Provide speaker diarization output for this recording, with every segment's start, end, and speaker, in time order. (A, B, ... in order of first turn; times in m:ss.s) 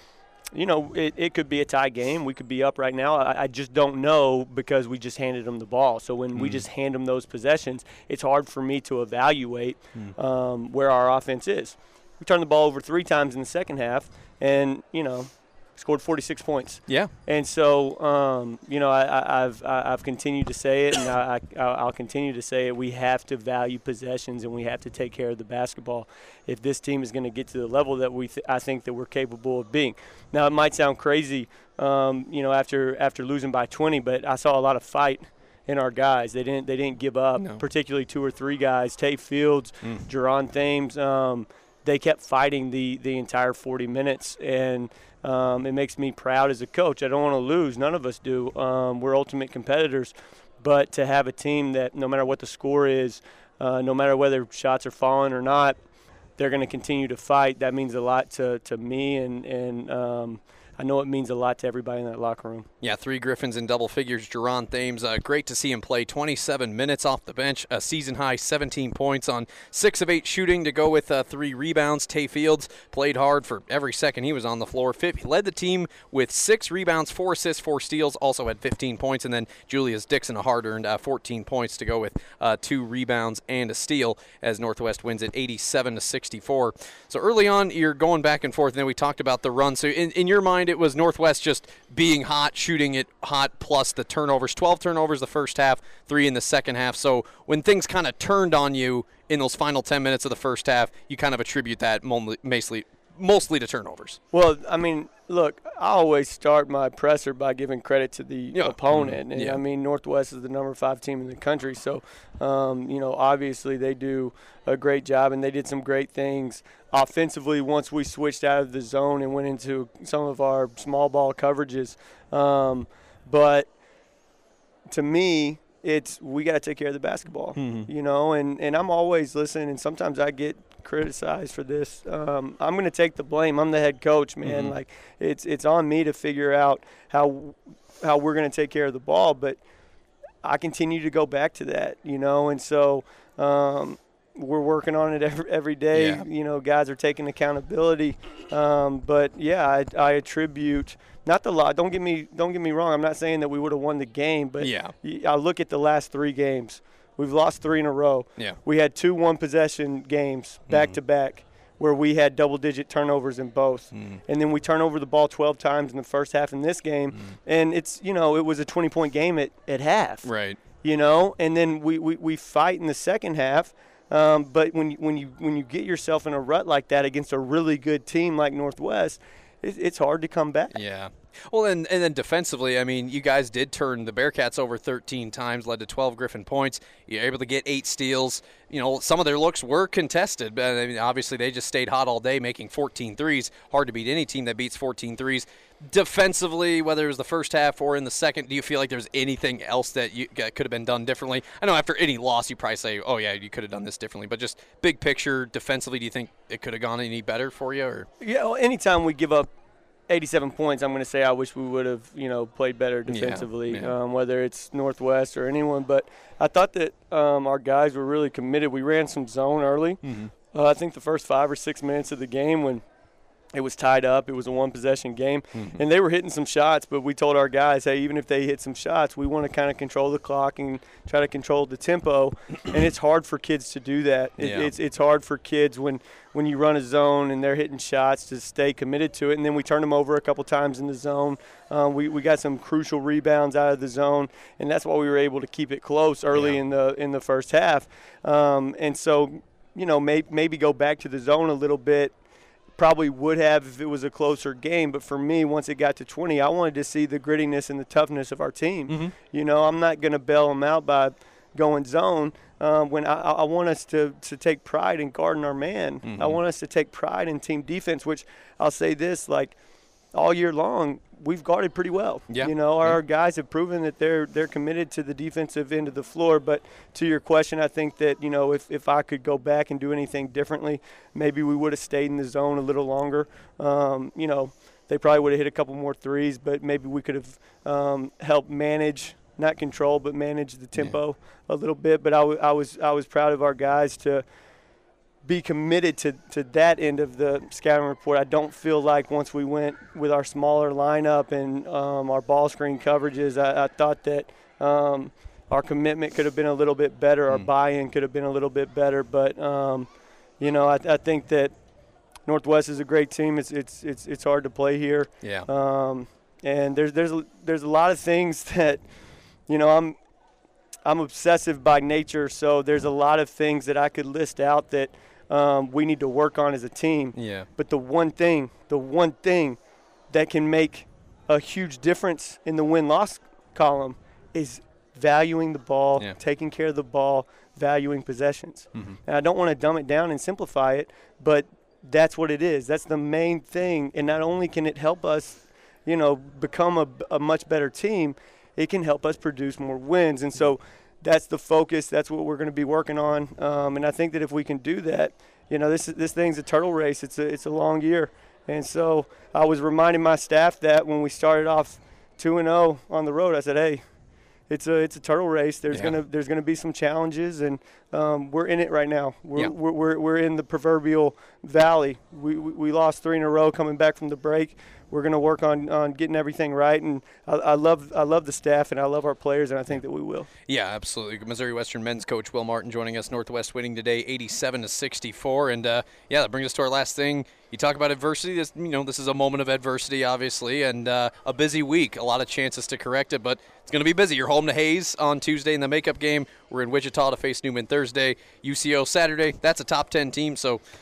0:00.5-0:55.8 A
0:06.3-0:06.6 B
0:56.4-1:02.7 A
1:02.8-1:44.2 B
1:44.3-2:03.7 A
1:48.5-1:49.6 B
2:04.9-2:19.6 A
2:07.6-2:07.9 B
2:14.4-2:14.8 B
2:20.4-2:50.3 A
2:25.9-2:26.2 B
2:34.6-2:34.9 B
2:40.7-2:41.0 B
2:43.9-2:44.2 B
2:50.2-2:50.6 B
2:50.8-3:00.8 A
3:00.7-3:28.1 B
3:28.2-3:29.5 A
3:30.1-3:42.8 A
3:33.1-3:33.9 B
3:40.0-3:40.3 B
3:43.5-4:12.2 A
3:54.4-3:54.7 B
4:12.8-4:29.5 A
4:18.9-4:19.1 B
4:26.0-4:26.4 B
4:30.1-4:54.2 A
4:32.3-4:33.0 B
4:55.2-5:11.5 A
5:12.2-5:18.8 A
5:15.2-5:15.5 B
5:19.5-5:20.0 A
5:20.8-5:29.6 A
5:27.1-5:27.5 B
5:30.1-6:03.8 A
6:04.5-6:20.3 A
6:20.5-6:40.6 B